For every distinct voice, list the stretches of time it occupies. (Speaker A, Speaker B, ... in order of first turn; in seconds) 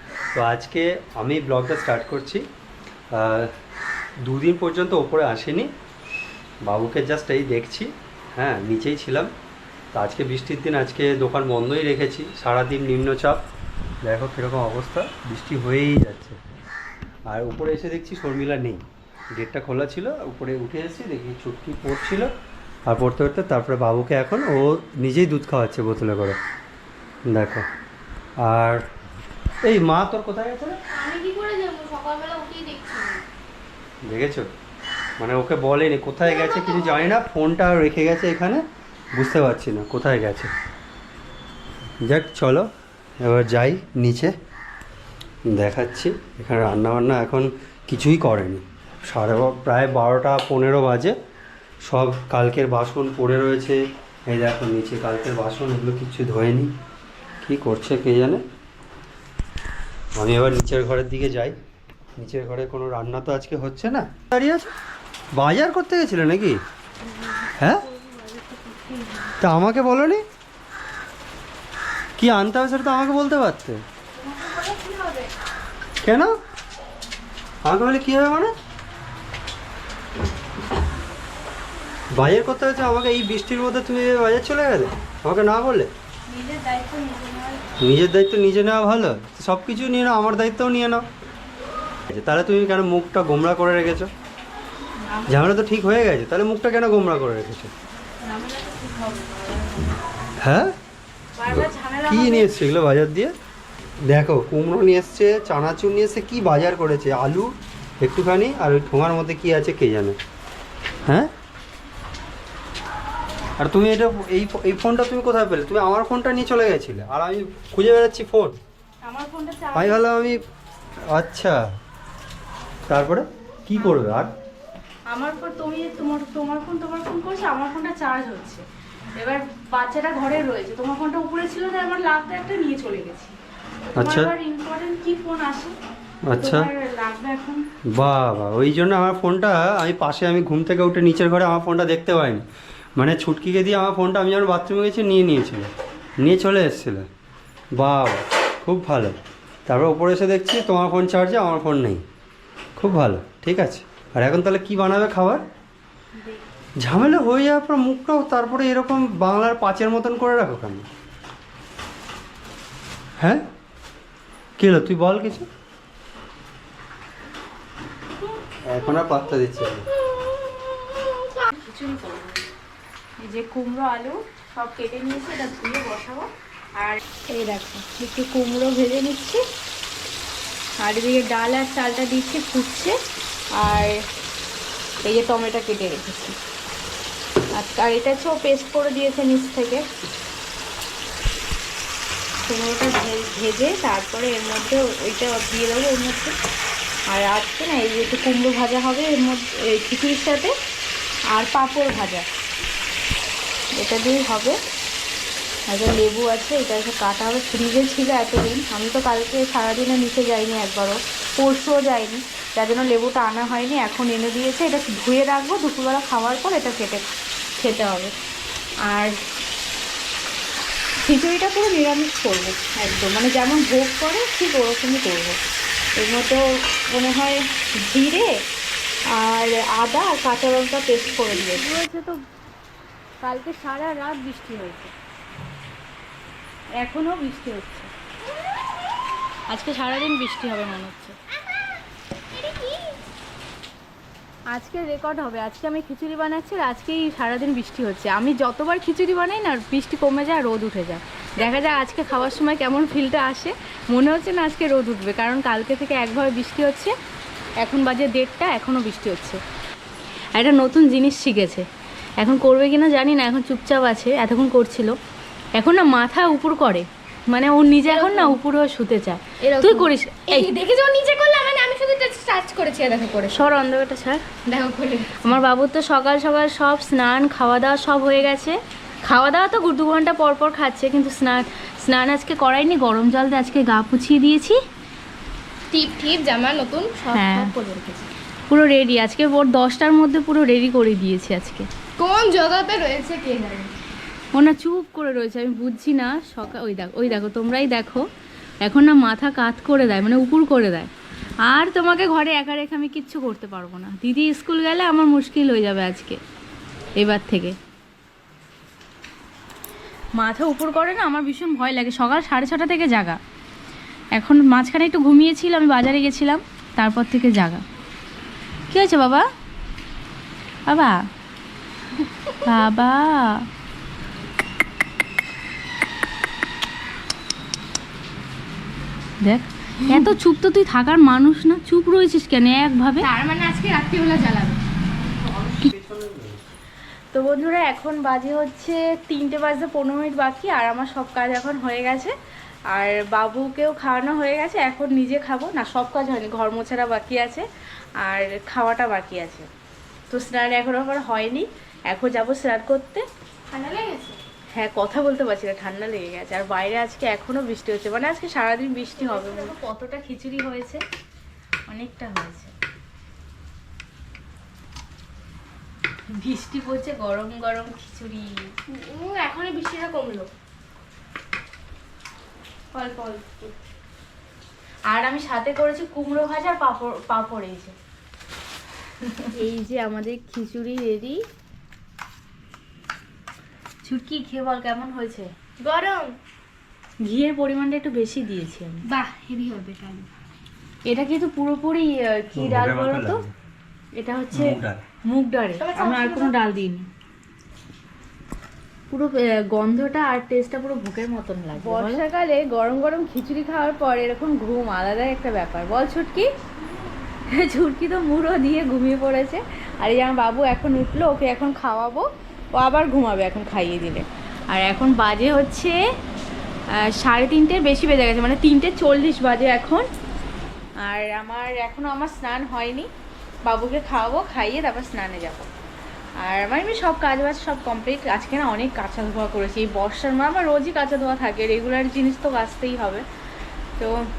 Speaker A: 0.3-2.5, 3.1-3.5, 4.2-5.7, 6.6-9.3, 9.9-13.4, 14.0-16.4, 17.3-18.8, 19.3-22.3, 22.9-26.4, 27.3-27.6, 28.4-28.8, 29.6-30.8, 34.1-34.5, 35.2-40.5, 42.0-42.7, 43.2-44.3, 45.5-51.1, 51.9-56.7, 57.4-58.4, 60.2-61.6, 62.2-64.7, 65.4-66.6, 67.6-67.8, 69.4-70.2, 72.2-73.8, 76.0-76.3, 77.6-78.5, 82.1-85.9, 87.8-91.0, 92.1-94.1, 95.3-97.7, 100.4-100.7, 101.5-103.3, 104.0-110.2, 113.6-118.6, 119.7-120.4, 121.1-121.6, 122.9-124.3, 133.9-134.3, 136.3-136.7, 137.9-142.4, 143.0-147.1, 147.8-152.0, 152.8-155.4, 156.8-160.9, 164.6-165.5, 168.7-169.9, 335.0-336.5, 392.4-393.3, 394.3-394.8
Speaker B: 30.9-33.2, 36.4-37.0, 170.2-171.4, 242.4-242.9, 267.9-268.4, 269.4-273.6, 274.5-275.4, 285.7-288.0, 292.0-293.7, 329.8-330.1, 333.0-334.6, 353.5-354.2, 359.1-359.5, 368.7-370.3, 372.8-373.4, 385.6-386.2, 388.9-390.1, 395.6-396.4
Speaker C: 67.3-69.3, 74.2-75.2, 86.3-87.7, 95.1-95.6, 98.2-100.0, 101.4-102.5, 119.0-120.3, 123.8-124.0, 125.1-128.6, 129.2-133.3, 133.9-135.8, 136.3-137.6, 171.5-172.4, 173.2-179.4, 180.8-183.0, 183.6-183.9, 185.0-186.4, 187.5-189.8, 192.5-196.3, 197.1-200.5, 201.3-202.3, 203.8-204.6, 205.7-217.0, 217.6-218.1, 218.9-219.1, 221.0-225.4, 226.0-228.3, 229.1-232.2, 233.2-234.9, 236.8-237.9, 239.5-241.2, 244.5-256.9, 257.6-259.4, 260.4-261.7, 262.2-265.0, 265.6-270.5, 273.3-274.2, 275.2-284.6, 287.1-287.6, 288.5-291.7, 294.3-298.1, 298.6-300.9, 301.4-306.2, 307.0-307.6, 310.2-313.2, 314.1-317.6, 318.7-319.3, 320.7-321.0, 322.4-323.4, 329.2-333.1, 337.1-342.1, 342.7-347.4, 348.0-349.5, 350.1-353.1, 354.5-360.8, 361.7-362.5, 366.1-368.5, 374.9-377.8, 379.0-381.2, 383.8-385.3, 387.1-388.9, 390.9-393.2, 394.0-396.9, 398.9-406.3, 407.3-415.8, 416.8-419.9, 420.8-422.9, 423.4-425.5, 426.2-433.0